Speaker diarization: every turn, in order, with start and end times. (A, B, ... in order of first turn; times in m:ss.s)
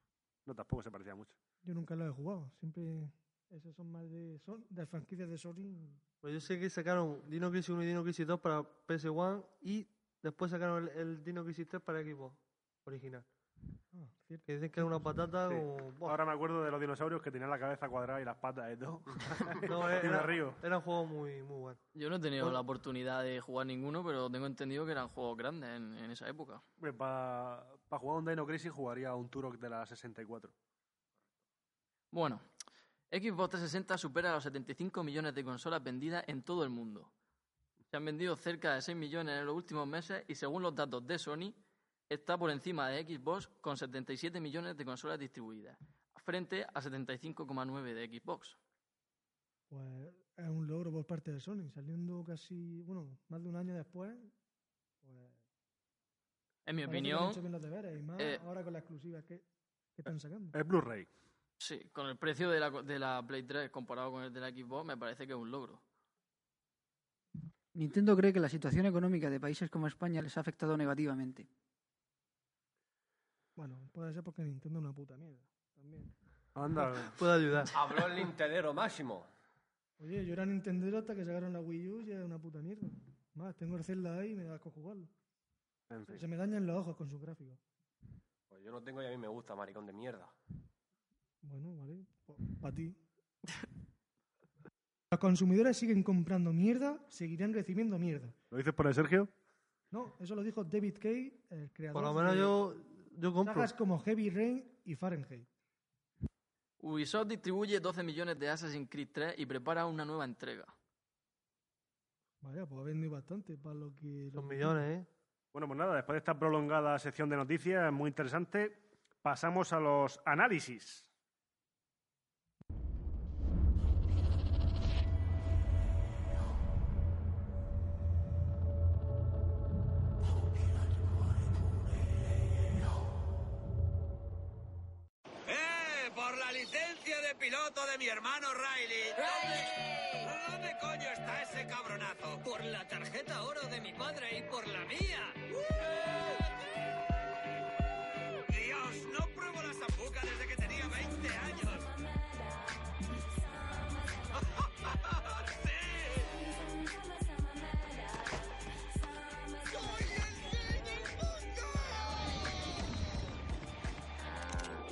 0:00.4-0:01.4 A
0:01.6-0:06.0 B
0:06.2-0:13.3 C
0:13.9-0:15.1 B
0:14.5-0:16.2 C
0:15.5-0:20.6 A
0:19.7-0:21.8 C
0:22.0-0:26.6 D
0:26.8-0:30.6 A
0:32.1-0:32.4 D
0:33.1-0:37.1 D
0:37.9-0:41.6 D
0:42.1-0:48.6 D
0:49.7-0:54.3 B
0:55.0-0:55.4 B
0:56.7-0:57.4 D
0:56.8-0:59.4 B
1:00.0-1:00.6 B
1:00.5-1:01.1 A
1:01.6-1:05.8 D
1:07.8-1:11.5 E
1:13.6-1:16.1 B
1:16.6-1:17.2 A
1:17.0-1:18.0 C
1:17.7-1:19.3 F
1:20.0-1:25.1 B
1:25.9-1:26.2 A
1:26.1-1:27.6 B
1:28.5-1:30.4 F
1:31.4-1:33.0 B
1:35.1-1:38.4 B
1:38.5-1:39.3 A
1:39.9-1:42.6 B
1:41.9-1:43.7 C
1:43.4-1:45.5 B
1:46.8-1:50.7 D
1:52.4-1:54.8 B
1:54.4-1:55.1 C
1:55.5-2:01.1 A
2:15.5-2:26.4 G
2:28.5-2:32.0 G
2:34.3-2:36.4 G
2:39.6-2:42.2 G